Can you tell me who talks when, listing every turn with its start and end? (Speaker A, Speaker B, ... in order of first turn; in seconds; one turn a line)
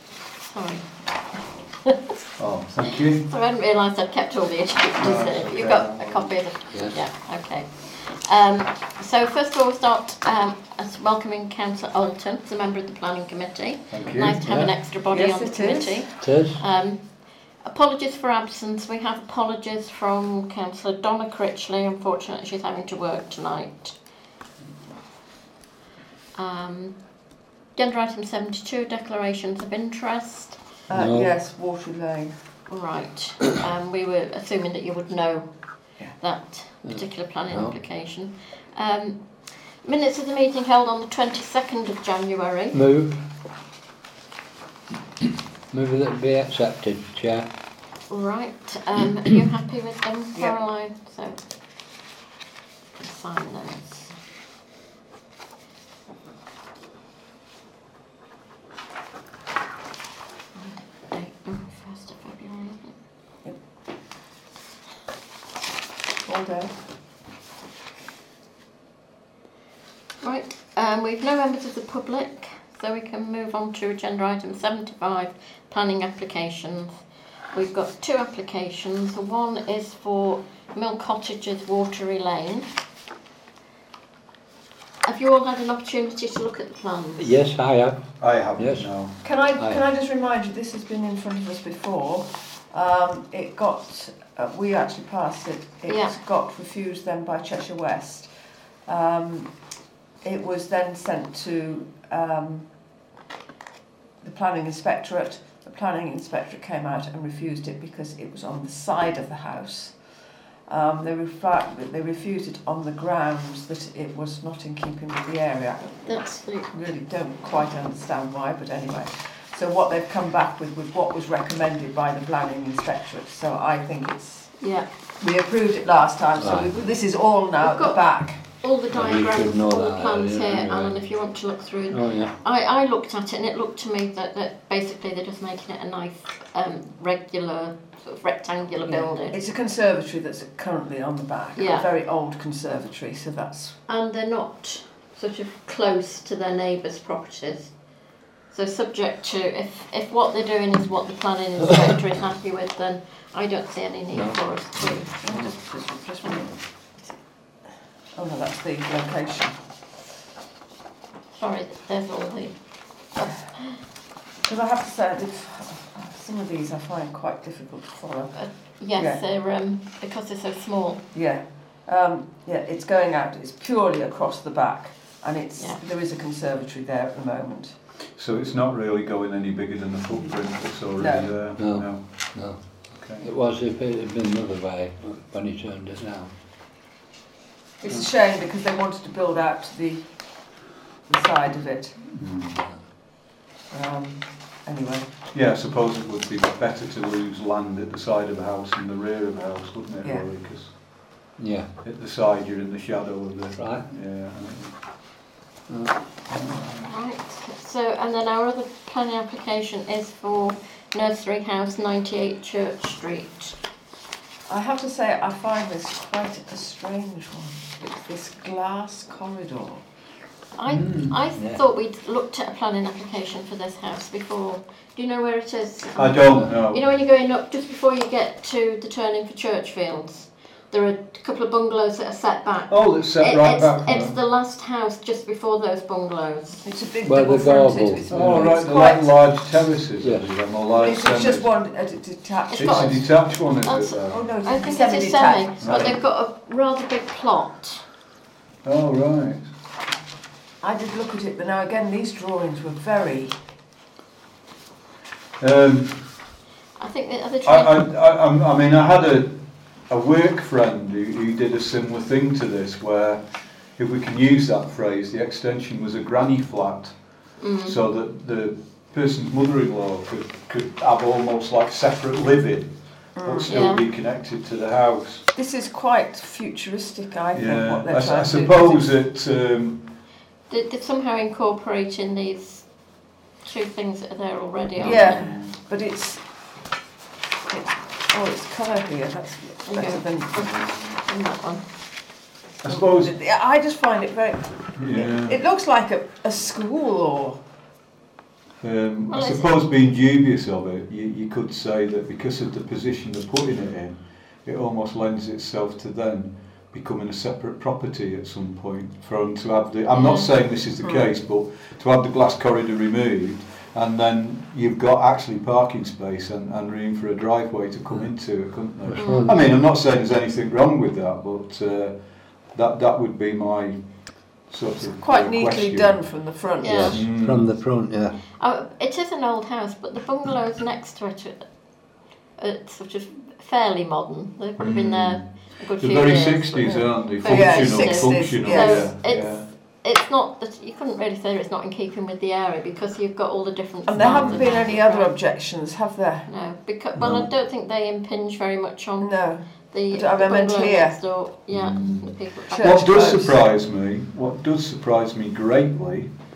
Speaker A: 0.4-2.0
Speaker B: 2.4-3.3
Speaker A: 2.9-24.0
Speaker B: 5.0-6.3
Speaker C: 6.7-7.0
Speaker B: 13.9-14.5
Speaker C: 14.4-14.7
Speaker D: 15.1-16.3
Speaker C: 16.2-16.6
Speaker A: 26.4-27.0
Speaker A: 27.7-30.6
Speaker D: 30.9-32.4
Speaker C: 30.9-31.3
Speaker A: 32.7-42.8
Speaker C: 36.8-37.8
Speaker C: 42.7-43.2
Speaker C: 45.7-47.5
Speaker A: 48.1-51.4
Speaker A: 53.0-54.1
Speaker A: 60.5-63.0
Speaker D: 66.2-66.7
Speaker A: 70.2-76.9
Speaker A: 77.5-82.7
Speaker A: 85.0-87.4
Speaker C: 87.2-88.9
Speaker B: 88.2-89.2
Speaker D: 89.2-98.3
Speaker C: 89.6-89.8
Speaker A: 95.9-96.2
Speaker D: 98.9-99.5
Speaker D: 100.2-102.7
Speaker D: 104.2-110.0
Speaker D: 110.7-116.1
Speaker A: 116.0-116.8
Speaker D: 116.7-124.6
Speaker A: 124.6-124.9
Speaker D: 125.2-128.4
Speaker C: 126.4-126.8
Speaker A: 127.6-139.4
Speaker C: 128.9-131.0
Speaker C: 131.9-132.3
Speaker D: 138.8-143.8
Speaker A: 141.6-141.9
Speaker A: 143.9-147.7
Speaker A: 148.5-155.6
Speaker C: 154.1-155.2
Speaker D: 155.2-156.5
Speaker A: 156.2-157.2
Speaker D: 158.1-159.5
Speaker A: 161.3-162.6
Speaker A: 163.2-163.8
Speaker D: 164.4-168.4
Speaker A: 168.3-171.0
Speaker D: 168.9-169.2
Speaker D: 171.1-177.8
Speaker B: 178.2-182.4
Speaker D: 181.0-181.3
Speaker C: 181.6-186.3
Speaker B: 182.9-183.3
Speaker D: 187.8-190.1
Speaker D: 191.1-192.0
Speaker B: 192.1-192.6
Speaker D: 193.7-195.1
Speaker B: 195.3-200.8
Speaker C: 201.4-201.7
Speaker B: 201.8-204.8
Speaker C: 203.6-203.8
Speaker C: 205.7-205.9
Speaker B: 206.3-206.9
Speaker A: 206.9-213.6
Speaker D: 214.5-219.8
Speaker A: 220.6-236.7
Speaker C: 220.8-221.6
Speaker B: 225.9-226.9
Speaker B: 232.7-234.2
Speaker D: 236.6-239.2
Speaker C: 237.0-238.5
Speaker B: 238.1-241.6
Speaker C: 240.0-240.3
Speaker D: 240.7-243.0
Speaker A: 242.5-243.1
Speaker B: 242.5-244.3
Speaker A: 243.6-247.8
Speaker D: 244.1-245.9
Speaker B: 245.6-246.0
Speaker B: 248.7-249.5
Speaker D: 250.6-253.4
Speaker B: 255.4-256.0
Speaker A: 256.8-257.8
Speaker B: 257.4-263.2
Speaker B: 263.8-267.0
Speaker A: 267.4-267.8
Speaker B: 267.6-275.3
Speaker D: 273.2-273.7
Speaker A: 273.5-273.9
Speaker D: 275.4-278.9
Speaker B: 277.3-279.9
Speaker A: 280.5-282.7
Speaker A: 283.4-285.3
Speaker B: 284.8-285.6
Speaker D: 284.8-286.2
Speaker D: 287.5-290.5
Speaker A: 289.6-291.6
Speaker B: 290.5-290.9
Speaker B: 292.6-293.1
Speaker D: 292.7-297.4
Speaker B: 294.8-295.4
Speaker B: 298.6-326.0
Speaker A: 299.1-299.5
Speaker A: 309.9-310.4
Speaker C: 318.8-319.4
Speaker A: 319.0-319.3
Speaker D: 325.0-327.0
Speaker A: 326.6-327.0
Speaker C: 326.6-328.2
Speaker B: 326.9-327.5
Speaker A: 328.4-331.6
Speaker A: 332.4-345.2
Speaker B: 334.6-339.5
Speaker D: 336.6-338.9
Speaker D: 343.9-346.3
Speaker B: 344.1-344.5
Speaker A: 346.3-352.8
Speaker B: 346.9-347.3
Speaker D: 349.0-351.0
Speaker B: 351.5-356.1
Speaker D: 352.5-353.4